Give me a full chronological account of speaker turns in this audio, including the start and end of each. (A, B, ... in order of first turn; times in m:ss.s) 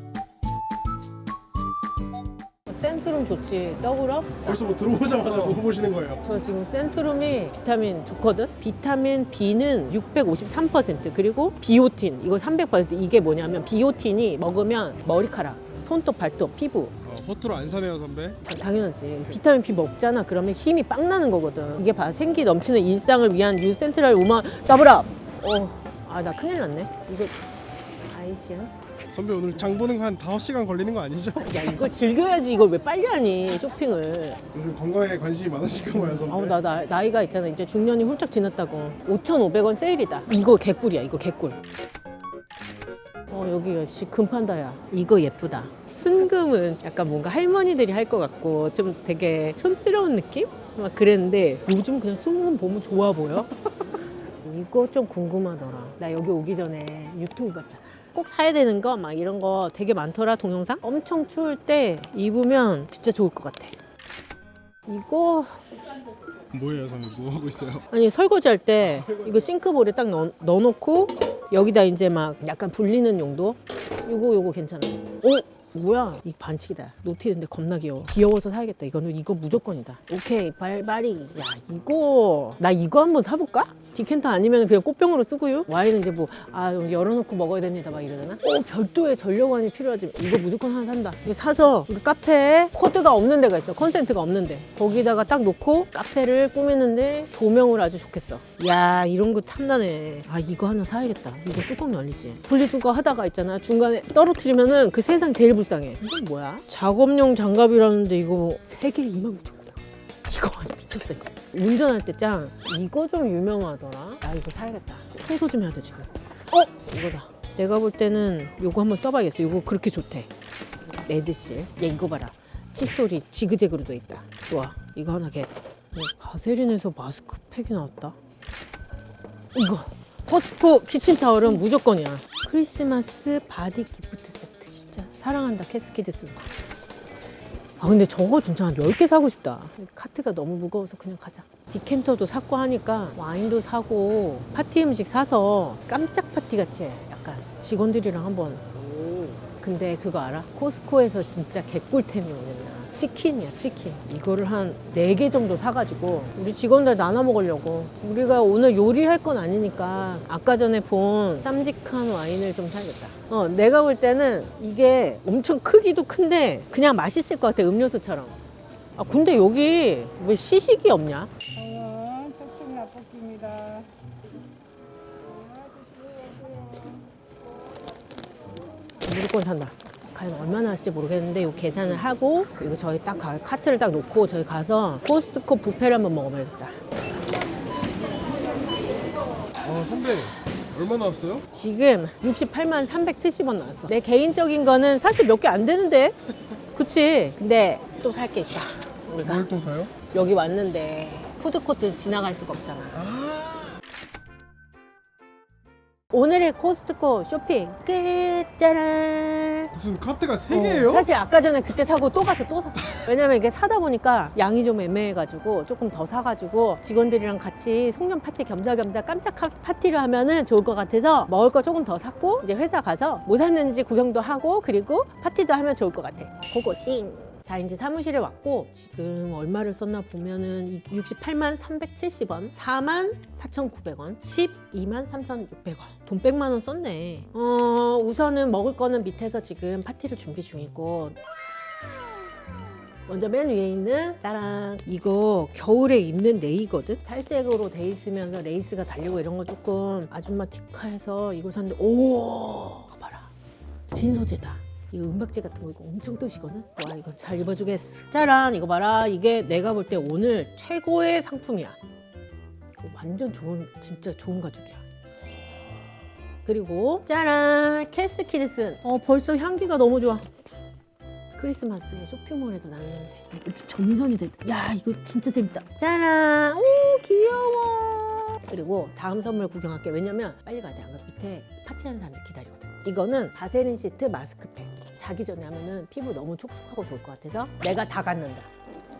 0:02.7-0:05.6 A
0:04.4-0:06.2 B
0:06.2-0:17.0 A
0:17.0-0:18.4 B
0:18.4-0:27.4 A
0:28.1-0:28.9 A
0:29.1-0:31.7 B
0:31.4-0:34.4 A
0:34.5-0:36.5 B
0:36.0-0:41.6 A
0:43.3-0:53.5 A
0:54.4-1:03.8 A
1:04.9-1:05.5 A
1:06.5-1:07.8 B
1:07.9-2:00.3 A
2:01.0-2:08.2 A
2:09.5-2:16.5 A
2:17.8-2:48.4 A
2:49.0-2:51.3 A
2:51.9-2:53.8 C
2:59.0-3:06.8 A
3:09.6-3:11.4 B
3:11.5-3:16.1 A
3:16.7-3:23.2 A
3:19.2-3:19.9 B
3:23.0-3:23.7 B
3:26.1-3:29.7 A
3:29.7-3:31.1 B
3:30.5-4:01.2 A
4:03.1-4:13.3 A
4:13.9-4:21.8 A
4:22.8-4:24.8 A
4:26.4-4:30.3 A
4:31.4-4:48.5 A